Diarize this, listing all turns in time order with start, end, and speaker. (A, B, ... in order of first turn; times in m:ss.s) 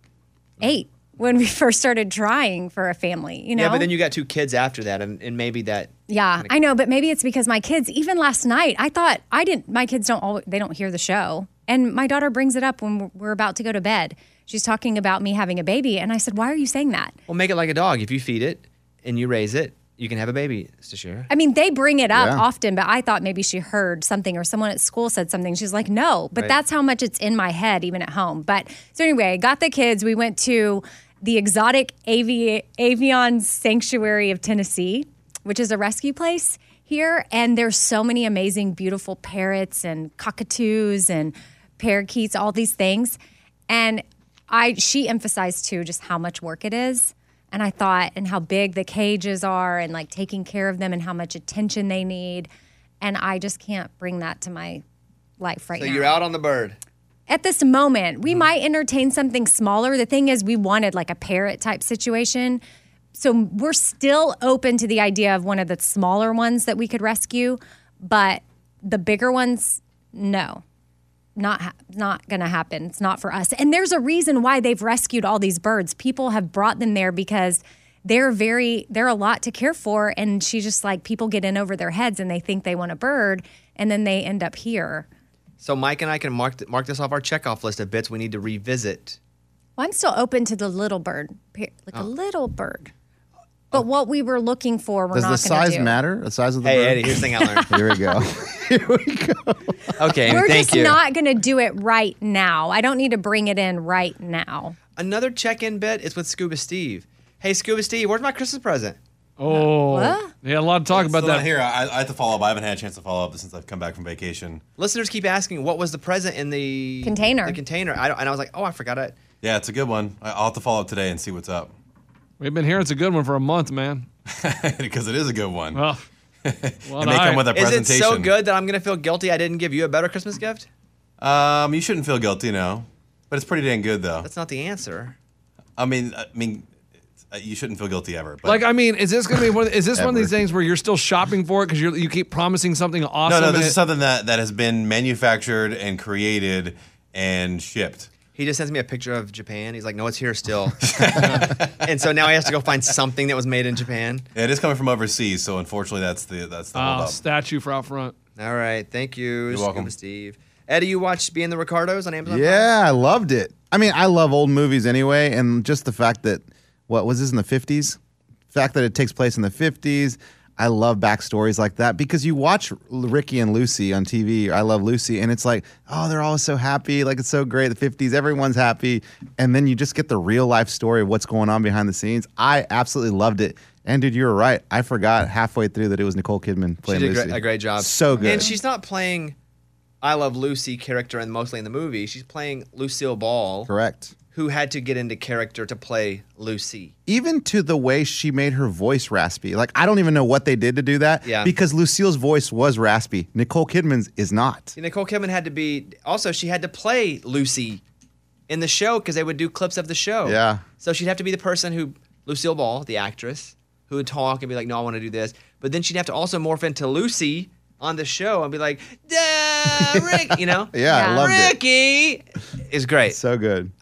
0:00.6-0:03.9 A
0:03.6-0:06.5 B
0:06.1-0:17.2 A
0:17.3-0:21.3 B
0:21.3-0:43.2 A
0:22.1-0:22.4 C
0:43.7-0:52.5 A
0:53.0-0:54.8 A
0:55.4-0:56.2 A
0:55.8-0:56.8 B
0:57.3-1:02.6 A
1:03.1-1:10.6 A
1:11.4-1:25.1 A
1:25.6-1:29.2 B
1:29.8-1:32.9 A
1:33.7-1:36.0 A
1:35.1-1:40.1 C
1:36.6-1:37.7 B
1:37.4-1:37.7 A
1:40.0-1:41.0 B
1:40.3-1:44.8 A
1:45.0-1:49.0 B
1:49.4-1:51.5 D
1:49.5-1:50.3 A
1:50.9-1:54.6 E
1:54.8-1:59.2 B
1:57.0-1:57.6 A
1:59.4-2:01.7 E
2:02.4-2:04.1 D
2:04.3-2:05.8 E
2:05.7-2:06.0 D
2:06.4-2:08.3 E
2:06.9-2:07.5 D
2:07.5-2:10.7 B
2:11.2-2:14.3 E
2:14.2-2:15.2 B
2:15.8-2:16.7 E
2:17.3-2:18.6 E
2:18.4-2:23.8 D
2:20.0-2:20.3 C
2:23.3-2:28.1 E
2:28.4-2:30.9 B
2:30.8-2:31.8 E
2:31.2-2:31.5 D
2:31.7-2:34.3 B
2:34.4-2:37.2 E
2:36.7-2:38.1 D
2:38.4-2:42.7 B
2:39.5-2:39.9 E
2:42.2-2:48.0 C
2:48.5-3:08.5 C
3:06.9-3:09.4 B
3:08.1-3:08.6 A
3:10.0-3:13.7 B
3:13.7-3:14.1 C
3:14.3-3:16.9 B
3:17.1-3:24.7 C
3:21.2-3:21.5 B
3:24.8-3:27.8 B
3:28.5-3:43.2 B
3:30.2-3:30.6 C
3:39.8-3:41.6 C
3:40.9-3:41.4 A
3:43.1-3:43.7 C